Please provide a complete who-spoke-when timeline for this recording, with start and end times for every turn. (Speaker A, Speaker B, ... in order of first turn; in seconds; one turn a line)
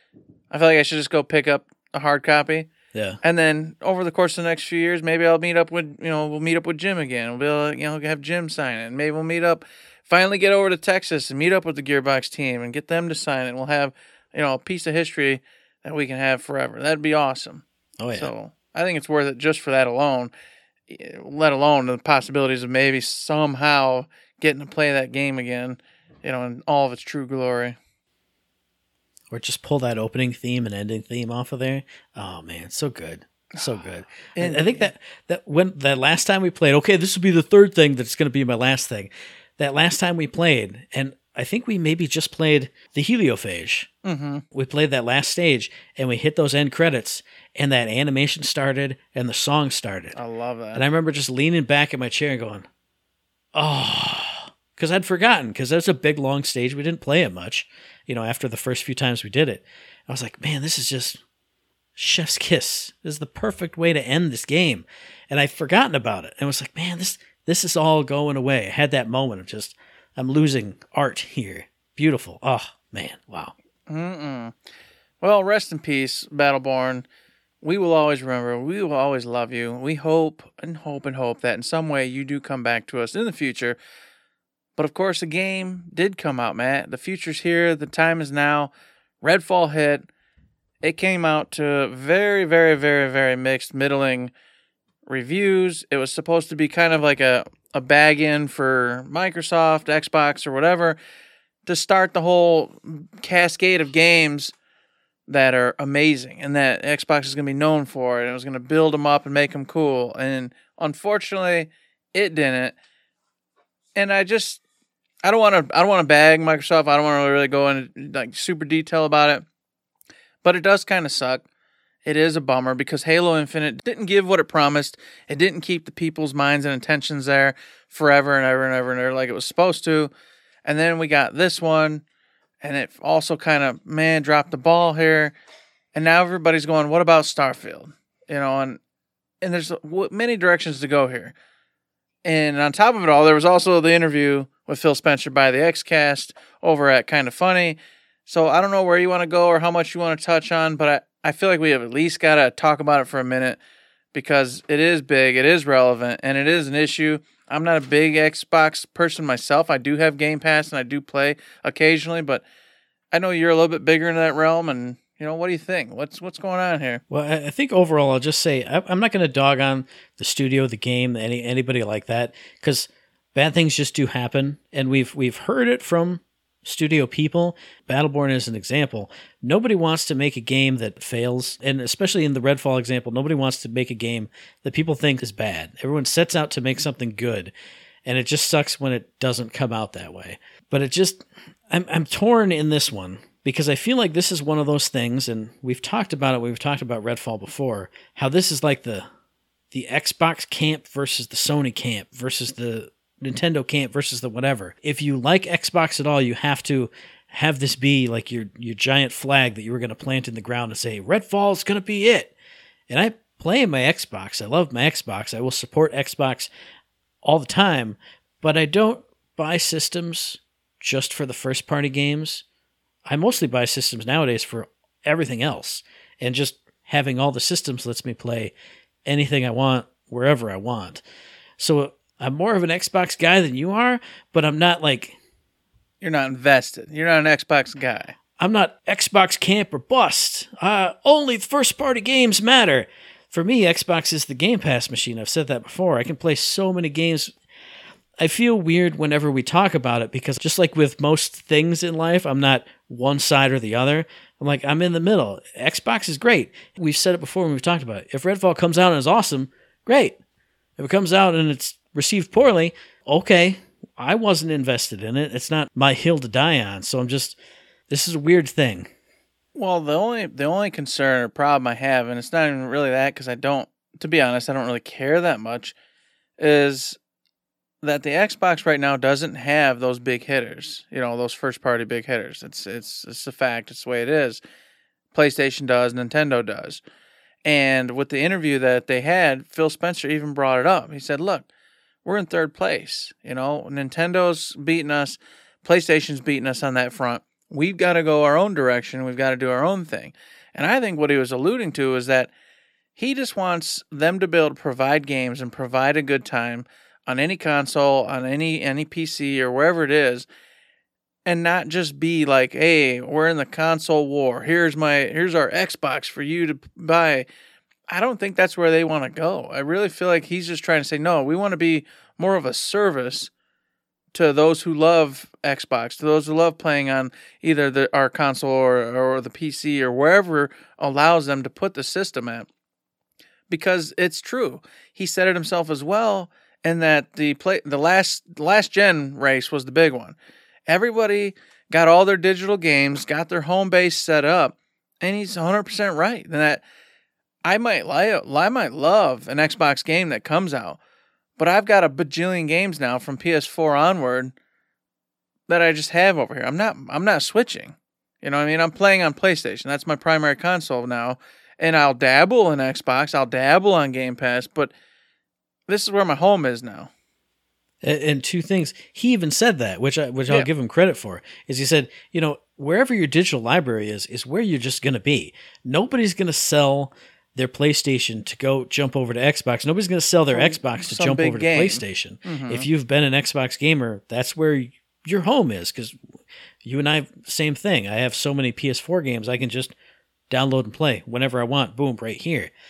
Speaker A: 0.5-2.7
Speaker B: 2.9-3.2
Speaker A: 3.2-20.3
Speaker B: 18.0-18.3
Speaker A: 20.9-27.8
Speaker B: 29.3-43.9
Speaker A: 33.5-34.9
Speaker A: 44.0-44.4
Speaker B: 44.5-50.2
Speaker A: 50.1-50.8
Speaker B: 50.7-52.7
Speaker B: 53.5-61.2
Speaker B: 62.0-73.5
Speaker A: 73.9-74.5
Speaker A: 75.2-77.0
Speaker A: 77.6-83.8
Speaker A: 84.8-90.1
Speaker A: 90.8-94.3
Speaker A: 95.0-101.0
Speaker A: 101.7-104.5
Speaker A: 105.3-112.8
Speaker A: 114.0-114.6
Speaker A: 115.2-119.4
Speaker A: 120.4-121.4
Speaker A: 122.0-130.1
Speaker A: 130.6-132.0
Speaker A: 132.6-135.3
Speaker A: 135.9-138.8
Speaker A: 139.4-141.3
Speaker A: 142.2-153.6
Speaker A: 154.1-162.4
Speaker A: 163.1-167.0
Speaker B: 167.1-187.5
Speaker B: 188.0-199.1
Speaker B: 199.7-212.3
Speaker B: 212.9-216.5
Speaker B: 217.2-222.4
Speaker B: 223.1-228.5
Speaker B: 229.0-231.0
Speaker B: 231.6-235.2
Speaker A: 236.0-238.1
Speaker B: 238.4-247.3
Speaker B: 248.2-260.2
Speaker B: 260.8-267.4
Speaker B: 267.9-268.9
Speaker A: 269.5-275.7
Speaker A: 276.4-277.0
Speaker A: 277.8-284.4
Speaker A: 285.1-286.8
Speaker A: 287.4-291.5
Speaker A: 292.0-302.3
Speaker A: 303.0-310.3
Speaker A: 311.2-317.3
Speaker A: 317.9-323.3
Speaker A: 324.1-332.5
Speaker A: 333.5-340.1
Speaker A: 340.7-346.6
Speaker A: 347.4-350.8
Speaker A: 351.4-354.3
Speaker A: 355.5-364.7
Speaker A: 365.7-366.9
Speaker B: 367.8-386.0
Speaker A: 380.3-382.7
Speaker B: 386.6-389.7
Speaker B: 390.3-392.5